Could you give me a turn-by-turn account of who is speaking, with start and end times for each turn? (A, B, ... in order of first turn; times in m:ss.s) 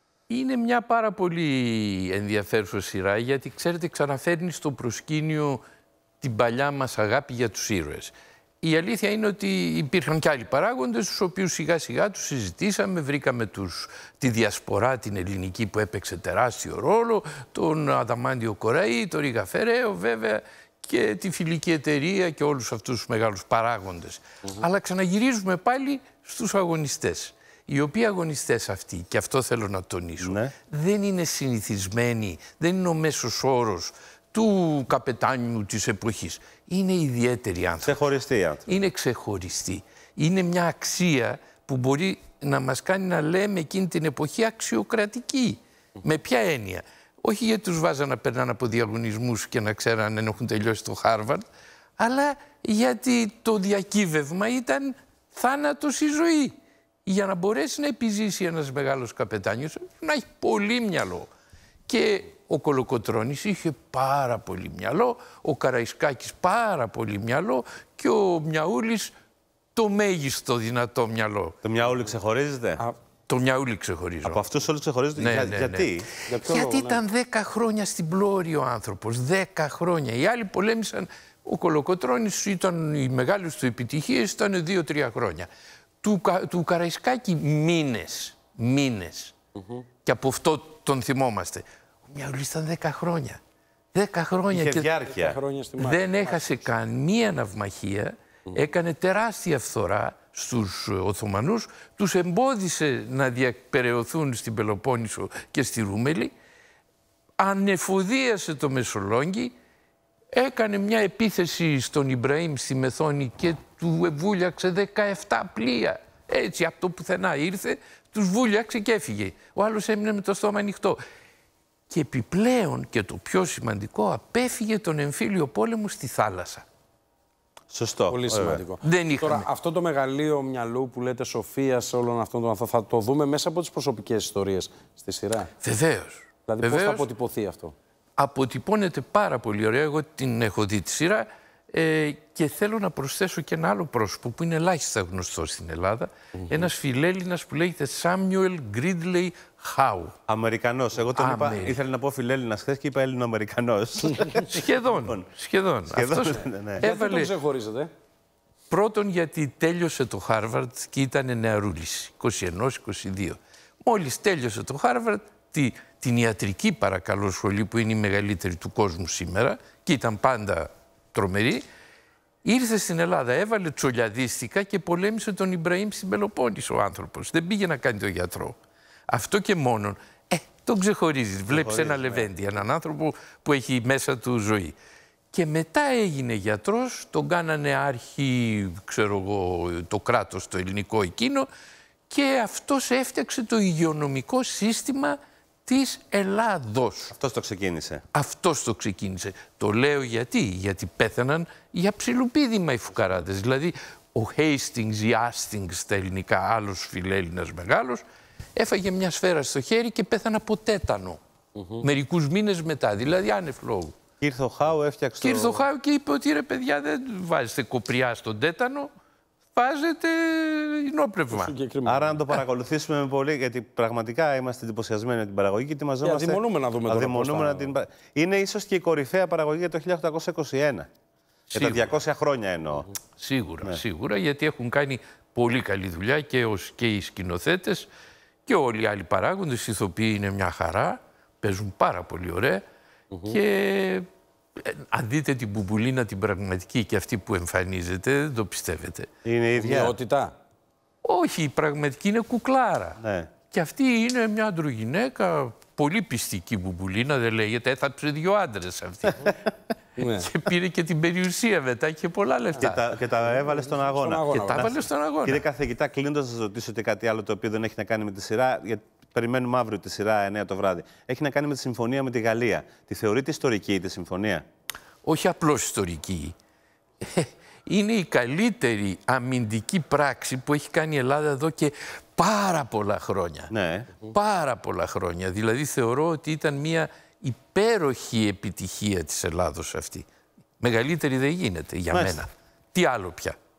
0:00.3-0:05.6 A
0:06.2-0:38.0 A
0:30.2-0:30.5 B
0:37.8-0:38.6 B
0:38.7-0:51.4 A
0:52.0-0:56.5 A
0:57.0-1:01.3 A
1:01.9-1:09.1 A
1:09.7-1:11.6 A
1:11.6-1:12.8 B
1:13.3-1:14.4 A
1:14.2-1:16.1 B
1:15.2-1:25.5 A
1:16.3-1:17.0 C
1:26.0-1:29.3 A
1:29.6-1:29.8 C
1:30.0-1:33.4 A
1:33.9-1:34.9 A
1:34.5-1:35.4 B
1:35.1-1:36.6 C
1:35.8-1:46.3 A
1:47.4-1:49.5 A
1:50.3-2:01.0 A
2:01.9-2:06.6 A
2:07.7-2:08.6 B
2:08.1-2:15.5 C
2:08.8-2:09.5 A
2:15.6-2:17.1 A
2:16.5-2:17.7 C
2:18.2-2:30.1 A
2:30.3-2:35.2 B
2:31.2-2:31.8 A
2:34.4-2:37.3 A
2:35.9-2:36.8 B
2:36.8-2:37.9 C
2:38.7-2:51.6 A
2:52.4-2:58.6 A
2:59.1-3:04.7 A
3:01.5-3:02.3 B
3:05.3-3:11.5 A
3:12.1-3:17.1 A
3:17.1-3:18.0 B
3:18.1-3:28.0 A
3:28.6-3:31.2 A
3:31.6-3:31.8 C
3:31.8-3:33.9 A
3:34.2-3:35.6 B
3:35.2-3:38.9 A
3:39.5-3:41.5 A
3:41.3-3:42.2 C
3:41.8-3:50.9 B
3:46.0-3:47.7 C
3:51.5-3:52.9 B
3:51.5-3:52.0 A
3:53.2-3:57.9 A
3:58.4-4:02.6 A
4:03.1-4:03.4 C
4:03.2-4:04.0 A
4:04.6-4:09.1 A
4:09.2-4:09.9 B
4:09.6-4:10.3 C
4:11.0-4:13.0 A
4:13.0-4:13.3 B
4:13.5-4:19.3 A
4:20.0-4:20.3 C
4:20.0-4:22.8 A
4:22.6-4:34.4 B
4:22.6-4:24.7 C
4:24.3-4:25.4 A
4:35.0-4:36.3 A
4:37.0-4:43.5 A
4:43.5-4:43.9 B
4:44.0-4:50.0 A
4:50.6-4:53.4 A
4:51.9-4:52.2 B